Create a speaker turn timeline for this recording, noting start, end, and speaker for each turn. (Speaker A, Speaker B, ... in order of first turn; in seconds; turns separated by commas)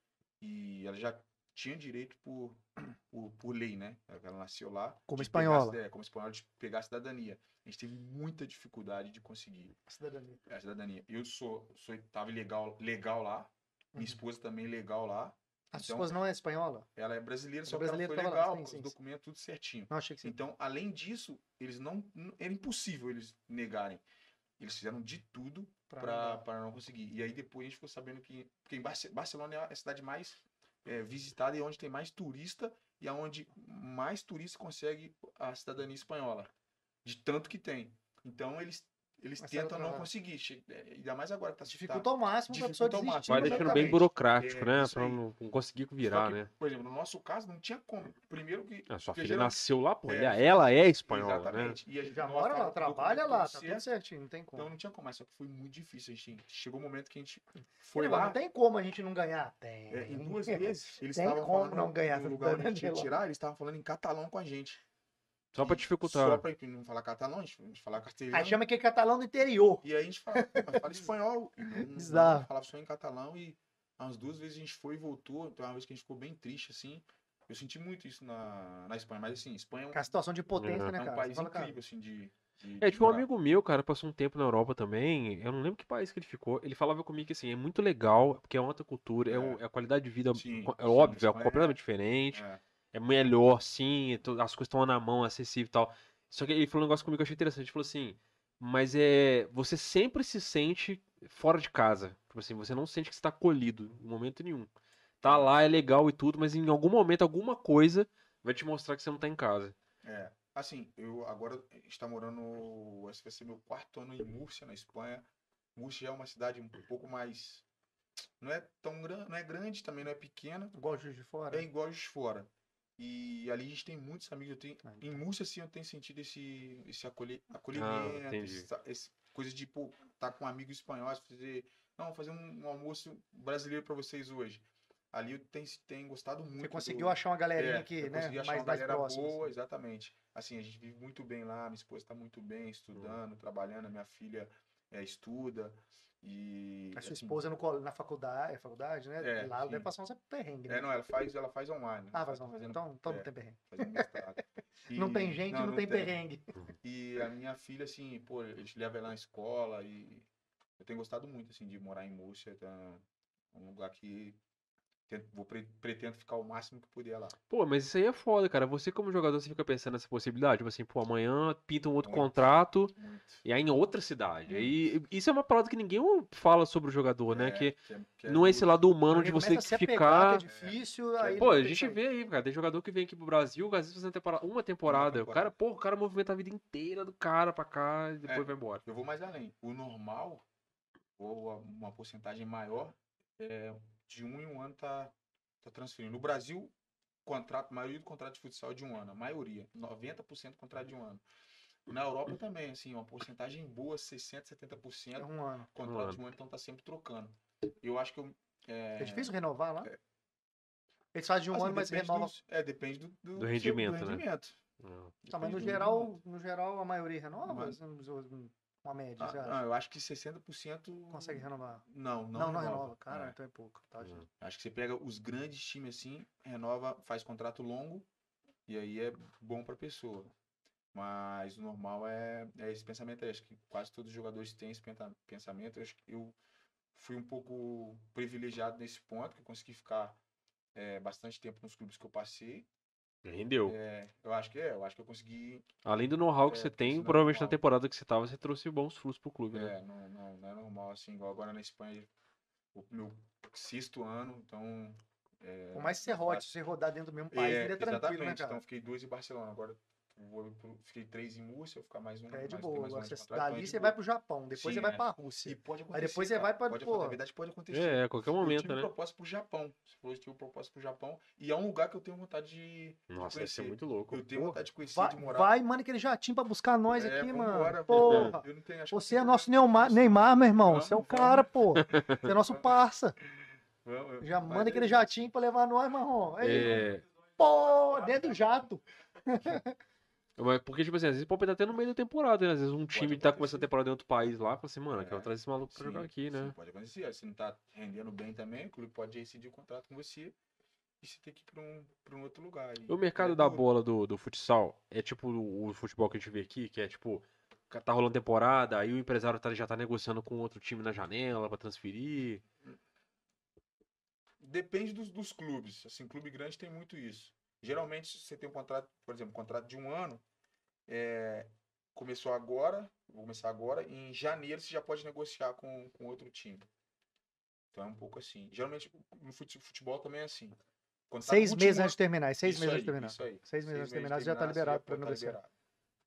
Speaker A: 0.4-9.7, Speaker B: 5.1-5.8, Speaker B: 9.9-10.4, Speaker A: 10.5-16.1, Speaker B: 13.9-14.2, Speaker B: 15.7-16.9, Speaker A: 17.0-24.0, Speaker B: 17.6-18.9, Speaker B: 19.9-20.3, Speaker A: 24.6-36.5, Speaker B: 25.9-26.4, Speaker A: 37.0-45.2, Speaker B: 39.4-40.1, Speaker B: 41.7-44.0, Speaker C: 43.3-46.5, Speaker A: 46.0-53.8, Speaker C: 48.9-51.8, Speaker B: 52.1-54.7, Speaker A: 54.5-58.4, Speaker B: 58.0-63.1, Speaker A: 59.9-64.8, Speaker C: 65.5-66.4, Speaker A: 65.6-68.6, Speaker B: 68.3-70.9, Speaker A: 69.8-80.1, Speaker B: 71.8-72.5, Speaker B: 79.9-81.8, Speaker C: 80.6-80.9, Speaker A: 80.9-83.3, Speaker C: 82.8-104.7, Speaker A: 89.3-89.6, Speaker A: 90.3-91.8, Speaker A: 92.3-92.6, Speaker C: 105.2-109.8, Speaker A: 105.2-105.5, Speaker A: 110.0-117.7, Speaker A: 118.4-120.8, Speaker B: 120.8-121.7, Speaker A: 121.5-147.4, Speaker B: 124.8-125.2, Speaker C: 127.7-128.7, Speaker B: 136.6-139.5, Speaker B: 147.0-150.9, Speaker A: 149.2-149.9, Speaker A: 150.7-156.2, Speaker B: 152.1-154.1, Speaker B: 154.9-156.5, Speaker A: 156.8-160.3, Speaker A: 160.8-164.4, Speaker A: 165.1-167.4, Speaker C: 167.5-180.5, Speaker A: 172.0-173.4, Speaker A: 174.5-174.7, Speaker A: 177.3-178.8, Speaker B: 179.1-182.0, Speaker A: 180.5-181.7, Speaker C: 181.4-188.8, Speaker A: 184.9-185.5, Speaker A: 188.2-190.4, Speaker A: 191.2-196.7, Speaker A: 197.2-201.2, Speaker A: 201.9-210.0, Speaker B: 205.2-205.7, Speaker C: 205.8-206.2, Speaker B: 209.0-209.9, Speaker B: 211.1-212.3, Speaker A: 211.5-214.6, Speaker C: 213.4-214.2, Speaker C: 214.8-215.1, Speaker A: 215.2-216.2, Speaker B: 215.3-219.6, Speaker A: 217.4-217.8, Speaker A: 219.2-223.4, Speaker B: 221.1-224.3, Speaker A: 224.4-228.1, Speaker A: 228.7-230.3, Speaker A: 230.9-236.4, Speaker A: 236.9-240.2, Speaker A: 240.8-242.7, Speaker C: 243.2-243.8, Speaker A: 243.7-245.7, Speaker C: 245.8-249.7, Speaker A: 246.4-247.6, Speaker A: 249.5-252.1, Speaker A: 252.7-256.5, Speaker B: 255.7-258.6, Speaker A: 257.3-264.0, Speaker B: 262.3-267.2, Speaker A: 264.5-275.5, Speaker C: 267.7-268.9, Speaker C: 273.1-274.6, Speaker B: 274.9-283.2, Speaker A: 276.9-285.2, Speaker C: 277.9-278.3, Speaker C: 281.8-282.2, Speaker B: 284.2-286.9, Speaker C: 286.4-287.0, Speaker A: 286.5-286.9, Speaker B: 287.4-289.8, Speaker C: 290.4-296.6, Speaker A: 292.9-293.7, Speaker A: 294.9-300.4, Speaker A: 301.0-303.7, Speaker C: 302.9-312.4, Speaker A: 314.4-320.2, Speaker A: 320.9-326.7, Speaker A: 327.7-330.6, Speaker A: 331.1-335.5, Speaker B: 331.2-335.4